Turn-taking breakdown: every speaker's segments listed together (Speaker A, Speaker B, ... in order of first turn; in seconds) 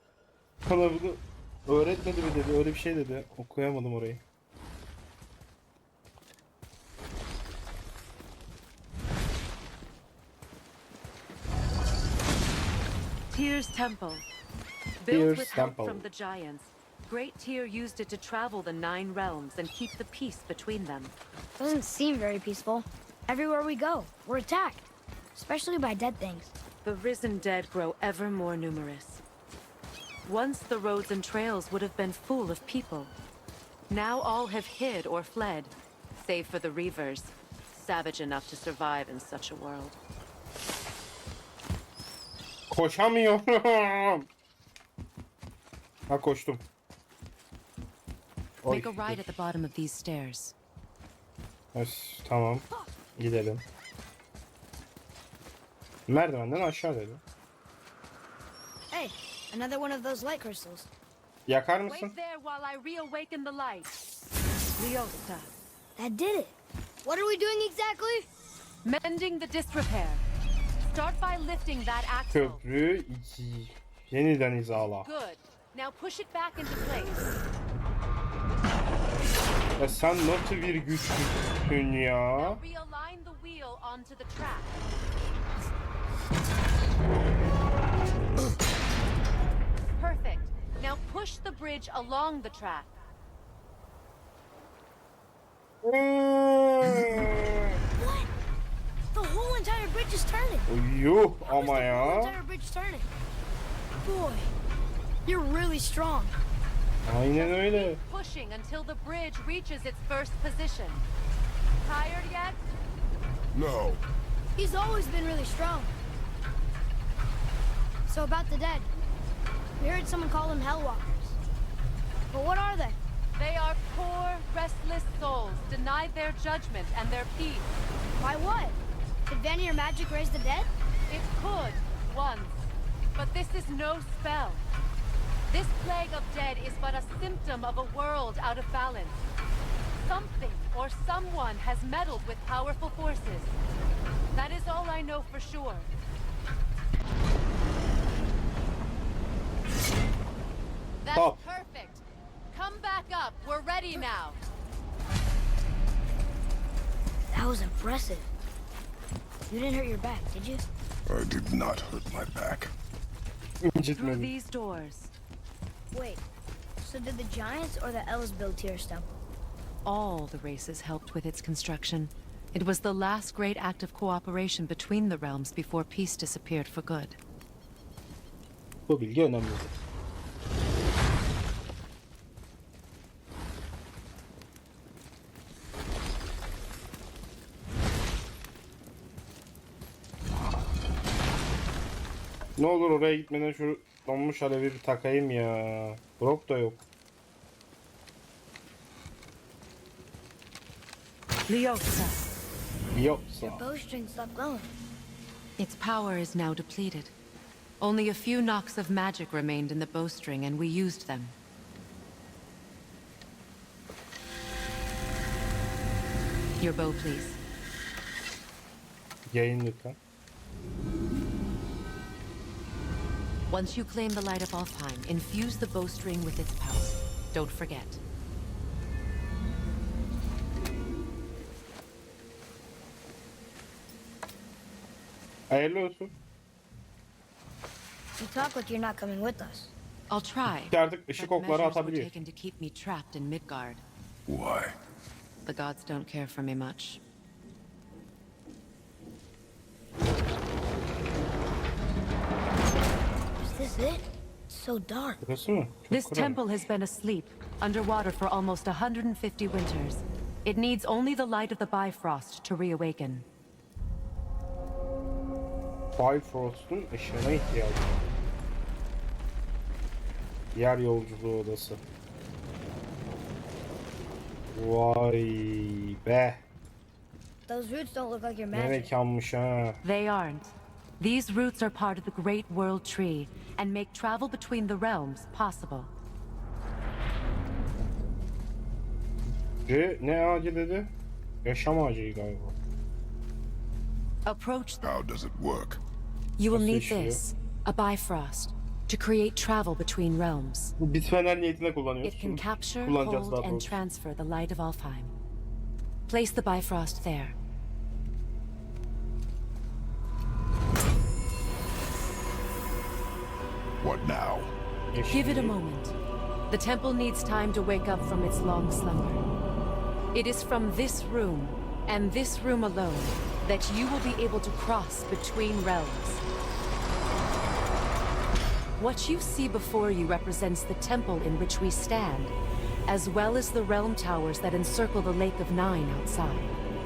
Speaker A: 0.7-4.2, 15.1-16.1, 42.7-44.3, 46.1-46.6, 48.6-49.2, 51.7-52.6, 53.1-53.6, 56.1-57.2, 61.5-62.1, 72.3-75.1, 79.8-82.6, 95.8-97.8, 100.7-102.4, 107.0-108.0, 151.1-151.4, 163.7-164.3, 178.9-179.8, 192.6-196.8, 202.9-203.6, 219.3-220.0, 235.5-236.1, 240.5-242.1, 255.2-256.4, 265.9-268.0, 270.5-271.8, 274.5-276.4, 278.5-279.8, 289.6-290.9, 291.4-292.6, 296.5-297.2, 300.8-303.8, 314.9-315.6
Speaker B: 13.3-14.2, 15.0-21.1, 26.8-29.2, 30.2-33.1, 33.9-39.9, 48.7-50.5, 61.9-63.9, 64.8-65.5, 68.8-70.2, 70.8-72.6, 75.0-77.3, 82.3-84.8, 90.0-92.9, 107.3-111.0, 111.8-112.6, 123.3-127.8, 131.1-134.6, 135.5-139.2, 140.0-143.6, 144.3-145.9, 151.0-154.4, 163.9-165.1, 169.8-177.2, 201.5-202.2, 205.6-207.1, 207.8-211.3, 216.6-217.4, 223.5-228.0, 240.1-243.8, 245.4-247.0, 255.9-263.2, 279.8-285.9, 294.2-294.8, 296.4-300.7, 302.0-305.1, 306.1-307.4, 315.1-315.9, 316.5-319.3, 320.1-326.2, 328.8-332.3, 332.9-336.5
Speaker C: 21.6-26.5, 58.9-60.9, 66.0-68.3, 98.0-98.3, 99.1-100.7, 101.5-103.1, 104.0-104.5, 105.2-106.3, 114.5-115.9, 118.1-118.9, 119.8-121.4, 122.3-123.0, 128.2-130.7, 157.3-158.3, 159.5-160.6, 165.9-166.2, 166.8-169.1, 203.4-204.7, 238.2-239.7, 253.4-255.2, 277.5-278.9
Speaker D: 113.5-114.0, 161.1-162.7, 244.2-244.7, 294.8-295.8, 313.8-314.5